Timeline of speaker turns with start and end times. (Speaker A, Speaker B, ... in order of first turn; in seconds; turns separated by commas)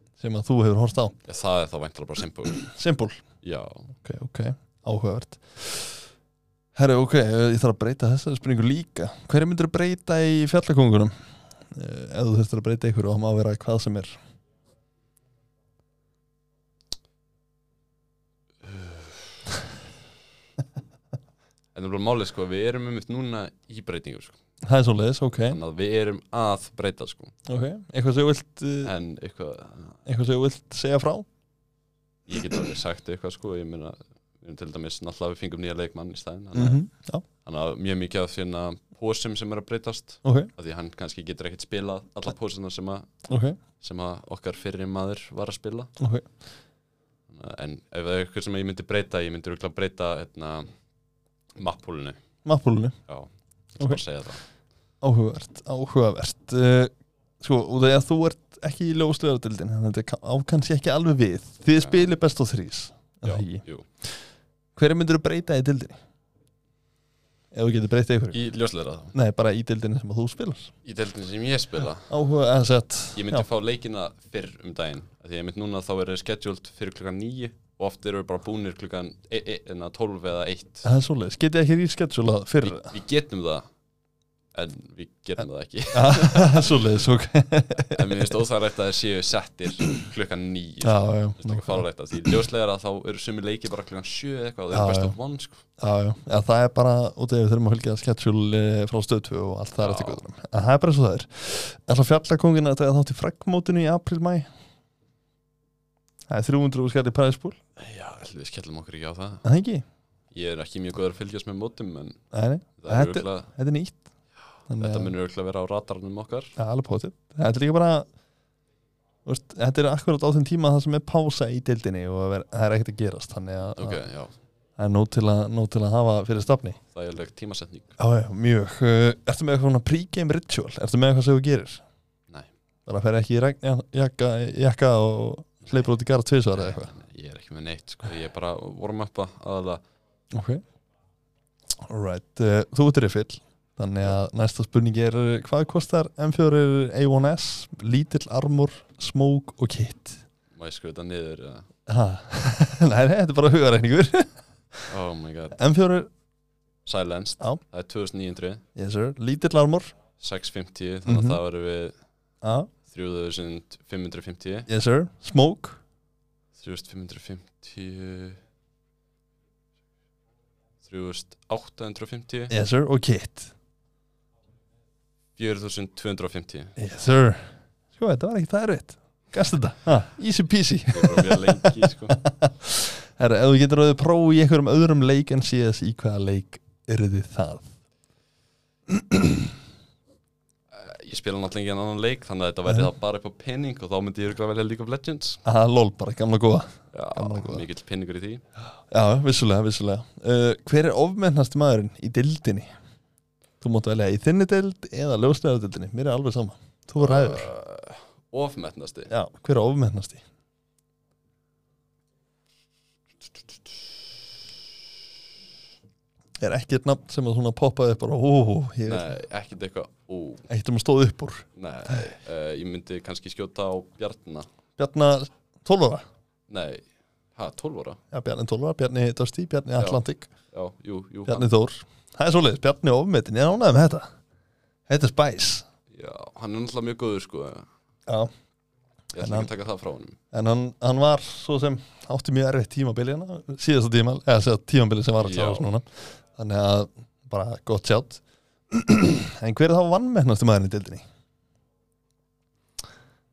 Speaker A: 0.2-1.1, Speaker B: 1.3-2.7, Speaker A: 2.6-3.2, Speaker B: 3.4-3.9, Speaker A: 4.0-6.0, Speaker A: 6.8-11.1, Speaker A: 11.7-14.2, Speaker B: 18.6-19.3, Speaker B: 21.8-24.4, Speaker A: 24.6-25.6, Speaker B: 25.5-27.3, Speaker A: 27.5-28.9, Speaker B: 28.8-30.0, Speaker A: 30.1-31.2, Speaker B: 32.3-36.9, Speaker A: 36.5-37.2, Speaker B: 37.4-43.1, Speaker A: 40.2-40.5, Speaker A: 43.3-43.6, Speaker B: 43.8-45.9, Speaker A: 46.0-46.2, Speaker B: 47.3-50.7, Speaker B: 51.5-52.2, Speaker A: 52.5-53.0, Speaker B: 53.1-54.4, Speaker A: 55.0-63.6, Speaker B: 61.8-62.1, Speaker B: 63.2-63.9, Speaker A: 64.8-66.0, Speaker A: 67.5-68.4, Speaker B: 68.3-69.1, Speaker A: 69.1-70.7, Speaker B: 70.8-72.1, Speaker A: 72.1-73.5, Speaker B: 73.1-80.9, Speaker A: 80.8-82.9, Speaker B: 82.6-83.6, Speaker B: 84.5-86.8, Speaker A: 85.9-88.3, Speaker B: 87.9-95.6, Speaker A: 90.8-91.9, Speaker A: 94.7-95.2, Speaker A: 95.8-104.5, Speaker B: 99.8-100.2, Speaker A: 106.3-107.6, Speaker B: 107.8-109.4, Speaker A: 109.4-109.8, Speaker B: 110.3-112.2, Speaker A: 112.3-114.0, Speaker B: 112.8-113.5, Speaker A: 114.7-115.1, Speaker B: 114.8-116.5, Speaker A: 116.6-118.1, Speaker A: 119.2-124.0, Speaker B: 123.8-124.3, Speaker A: 124.8-126.8, Speaker B: 126.9-128.0, Speaker A: 128.0-131.8, Speaker A: 132.8-136.9, Speaker B: 136.6-139.8, Speaker A: 140.3-140.6, Speaker A: 141.8-150.2, Speaker B: 150.5-151.7, Speaker A: 151.9-154.8, Speaker B: 154.9-155.6, Speaker A: 155.5-156.1, Speaker B: 156.8-158.6, Speaker A: 158.8-159.9, Speaker B: 160.2-161.9, Speaker A: 161.1-161.4, Speaker A: 162.4-162.7, Speaker B: 162.9-164.7, Speaker A: 164.7-165.8, Speaker B: 166.6-168.4, Speaker B: 170.8-172.5, Speaker A: 172.5-173.5, Speaker B: 175.3-176.7, Speaker A: 176.8-187.7, Speaker B: 180.9-182.2, Speaker A: 188.9-189.3, Speaker B: 190.7-195.4, Speaker A: 195.4-197.7, Speaker B: 196.9-198.4, Speaker A: 198.9-202.7, Speaker A: 203.6-207.5, Speaker B: 207.0-209.1, Speaker A: 209.1-210.2, Speaker A: 216.4-219.2, Speaker B: 218.9-220.5, Speaker A: 220.5-222.1, Speaker B: 221.6-224.5, Speaker A: 224.8-226.1, Speaker B: 226.5-226.8, Speaker B: 227.3-228.0, Speaker A: 228.1-230.3, Speaker B: 230.5-231.5, Speaker A: 231.2-234.1, Speaker A: 234.9-235.7, Speaker B: 235.9-237.7, Speaker B: 239.1-240.2, Speaker A: 239.2-239.5, Speaker A: 240.3-251.0, Speaker B: 245.2-245.7